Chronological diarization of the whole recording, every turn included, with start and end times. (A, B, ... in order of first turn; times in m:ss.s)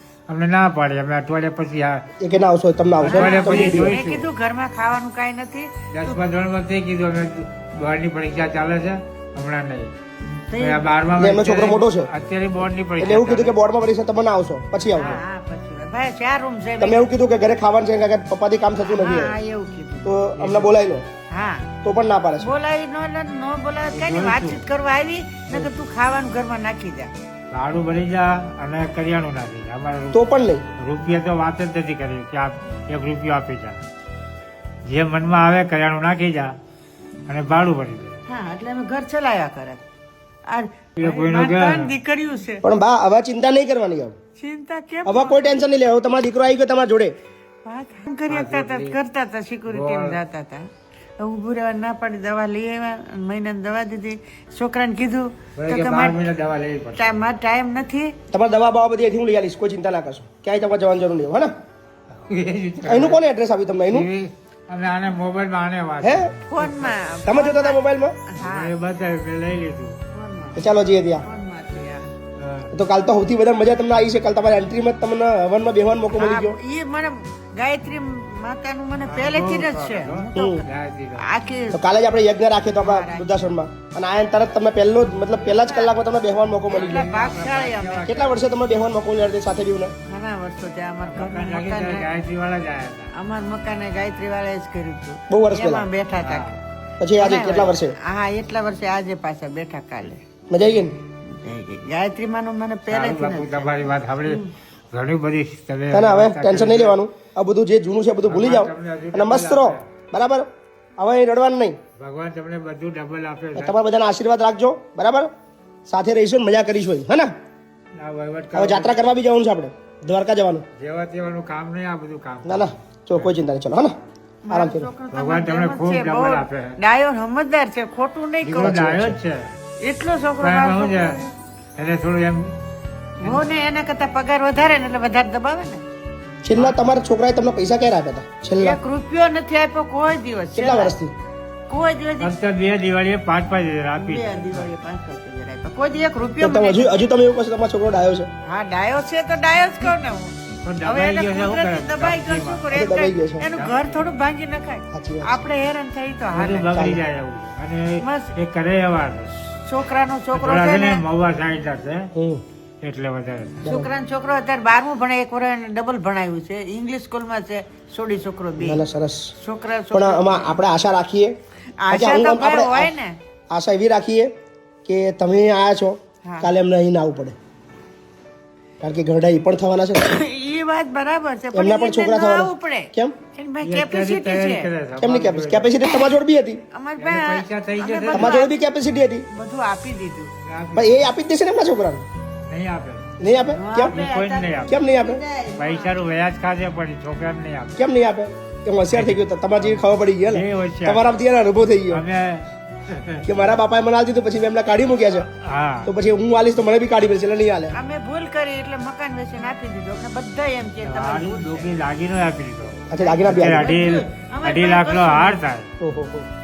0:00.3-0:02.1 A
0:02.2-0:04.0 B
0:03.0-0:04.3 A
0:03.0-0:06.2 C
0:05.9-0:09.9 A
0:10.5-0:11.0 C
0:10.6-0:13.6 A
0:11.2-0:12.1 B
0:13.0-0:15.2 B
0:15.0-0:17.1 C
0:16.8-0:19.4 B
0:18.8-0:20.3 C
0:20.0-0:21.1 B
0:20.4-0:20.8 A
0:21.3-0:21.7 C
0:21.8-0:22.5 B
0:22.4-0:27.1 C
0:23.9-0:24.6 A
0:27.5-0:33.8 A
0:30.1-0:30.6 B
0:34.8-0:36.5 A
0:37.3-0:38.2 A
0:38.3-0:39.8 C
0:40.5-0:42.6 C
0:41.0-0:42.0 A
0:42.6-0:44.1 B
0:44.4-0:45.6 C
0:45.0-0:47.1 B
0:47.6-0:50.6 C
0:48.3-0:49.0 A
0:49.7-0:50.2 A
0:51.2-0:56.3 C
0:55.6-0:57.2 A
0:57.0-0:58.2 C
0:58.3-1:01.5 B
1:02.2-1:03.2 A
1:02.8-1:04.1 B
1:03.9-1:06.9 A
1:06.0-1:06.3 B
1:06.4-1:08.8 C
1:07.2-1:08.2 B
1:08.4-1:10.0 A
1:10.1-1:12.1 C
1:10.6-1:11.2 B
1:12.4-1:12.7 A
1:12.7-1:16.6 B
1:16.1-1:21.8 C
1:19.0-1:21.3 A
1:20.4-1:20.6 B
1:21.7-1:27.1 B
1:22.8-1:23.5 C
1:25.5-1:25.9 C
1:26.7-1:28.3 C
1:26.8-1:28.4 A
1:28.0-1:30.0 B
1:30.0-1:32.1 C
1:31.0-1:33.1 A
1:33.1-1:36.6 C
1:35.3-1:35.9 B
1:36.2-1:36.6 A
1:37.0-1:38.0 B
1:37.1-1:40.2 C
1:40.5-1:41.0 B
1:41.0-1:43.7 C
1:42.9-1:47.0 A
1:45.9-1:50.5 B
1:48.3-1:49.9 A
1:51.0-1:51.8 B
1:52.0-1:53.8 A
1:53.6-1:55.3 B
1:55.9-1:57.3 B
1:58.0-1:59.0 A
1:58.5-2:00.6 B
2:00.8-2:03.3 A
2:02.4-2:04.0 B
2:04.4-2:08.8 C
2:04.5-2:04.9 B
2:05.1-2:06.8 A
2:08.4-2:09.5 A
2:08.6-2:09.2 B
2:09.8-2:11.4 C
2:10.4-2:11.2 A
2:11.8-2:12.6 A
2:13.2-2:15.8 C
2:13.2-2:13.4 A
2:16.4-2:18.8 B
2:18.6-2:21.0 C
2:20.6-2:21.1 B
2:21.7-2:22.4 C
2:22.2-2:24.8 A
2:24.0-2:27.0 C
2:26.4-2:28.3 B
2:28.4-2:36.9 C
2:30.6-2:32.6 A
2:32.7-2:33.5 B
2:33.4-2:34.1 A
2:34.9-2:35.4 B
2:36.3-2:39.4 A
2:36.7-2:37.0 B
2:38.0-2:38.3 C
2:39.5-2:41.0 C
2:40.3-2:42.1 A
2:42.2-2:42.4 B
2:42.8-2:43.7 A
2:43.6-2:43.9 B
2:43.6-2:48.8 C
2:48.6-2:49.3 B
2:49.4-2:50.6 C
2:49.9-2:51.3 B
2:51.8-2:53.2 C
2:51.9-2:52.9 B
2:53.5-2:54.3 B
2:54.9-2:57.4 B
2:56.2-2:56.5 C
2:58.8-3:00.2 B
3:00.0-3:04.7 C
3:01.5-3:03.2 B
3:03.6-3:05.7 A
3:05.0-3:06.6 B
3:06.7-3:08.5 C
3:07.0-3:08.4 A
3:08.1-3:09.3 B
3:09.3-3:10.3 C
3:10.4-3:11.1 A
3:10.8-3:12.1 B
3:12.5-3:13.2 A
3:13.2-3:14.0 B
3:13.4-3:16.0 C
3:13.9-3:14.8 A
3:14.7-3:15.2 B
3:15.6-3:17.8 A
3:17.8-3:22.0 B
3:18.9-3:21.2 A
3:21.9-3:23.3 A
3:23.2-3:25.3 B
3:25.2-3:25.9 A
3:25.8-3:27.8 B
3:27.7-3:31.7 C
3:30.8-3:35.7 A
3:32.9-3:33.7 B
3:32.9-3:35.4 C
3:35.8-3:36.3 B